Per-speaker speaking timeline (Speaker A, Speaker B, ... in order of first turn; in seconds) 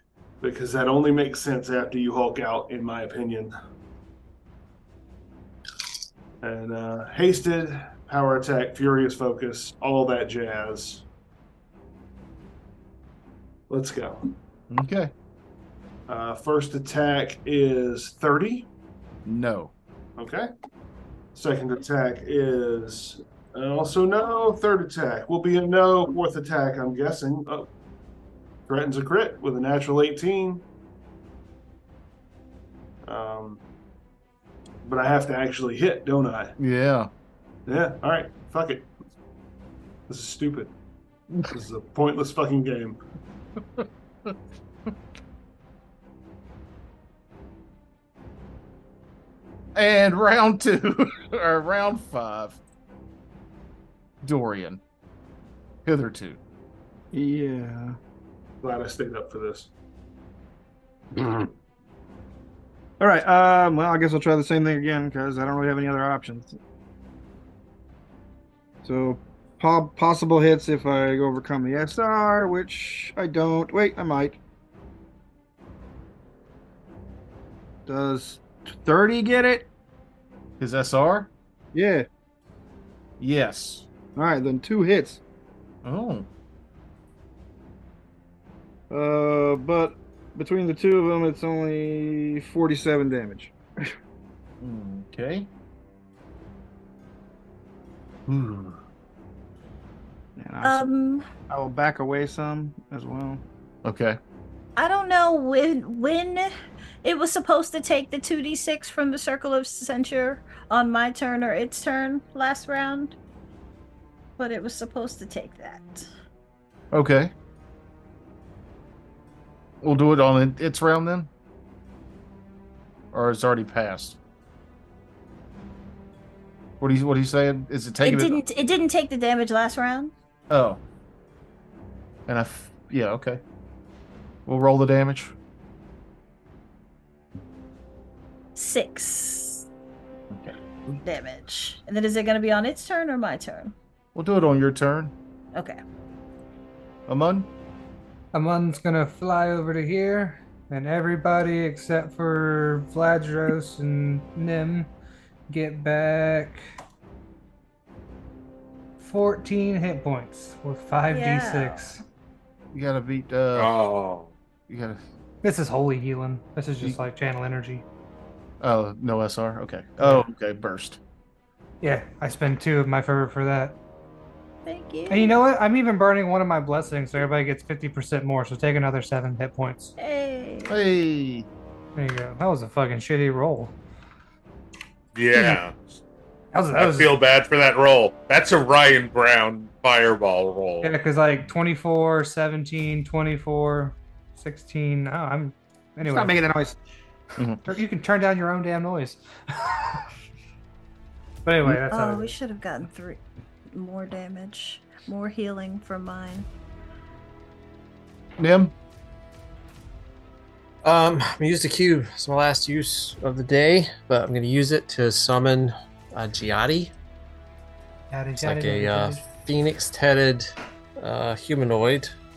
Speaker A: 0.4-3.5, 6.4-11.0, 13.7-14.3, 16.1-18.7, 20.2-20.5, 21.3-27.7, 28.7-30.6, 33.0-33.6, 34.8-36.5, 37.6-38.9, 40.1-40.7, 41.5-43.0, 58.6-59.7, 61.1-61.5
Speaker B: 14.7-15.1, 19.2-19.7, 36.6-37.1, 49.7-52.6, 54.2-54.8, 55.8-56.4, 80.6-81.3, 83.2-83.9, 85.8-86.3, 94.6-95.5, 98.2-98.8, 103.8-104.2, 116.9-117.3, 119.8-121.3, 123.1-124.2, 126.8-128.4, 130.5-130.8, 132.3-133.4, 134.4-135.3, 140.3-141.0, 144.1-145.1, 147.1-147.5, 162.7-163.8, 164.7-165.0, 168.6-171.0, 180.7-181.5, 197.4-197.6, 208.4-208.7
Speaker C: 57.1-58.0, 63.0-66.6, 68.8-74.4, 77.9-79.7, 81.7-82.1, 84.2-85.2, 88.9-93.9, 100.4-100.9, 101.5-103.4, 196.0-196.8
Speaker D: 100.6-101.3, 104.8-106.5, 107.0-113.2, 114.4-116.0, 128.0-130.1, 138.6-139.7, 141.0-143.7, 145.5-145.8, 161.1-161.9, 174.6-175.4, 180.0-180.8, 201.9-203.2, 203.7-206.5
Speaker E: 148.3-154.9, 155.5-156.6, 159.0-162.0, 165.4-167.8, 171.8-173.8, 175.1-179.9, 181.9-183.7, 186.5-187.2, 190.8-196.4, 197.6-200.0, 201.4-202.3, 218.1-219.2
Speaker F: 163.6-164.3, 185.1-186.0, 186.8-190.9
Speaker G: 210.8-216.9, 218.4-222.1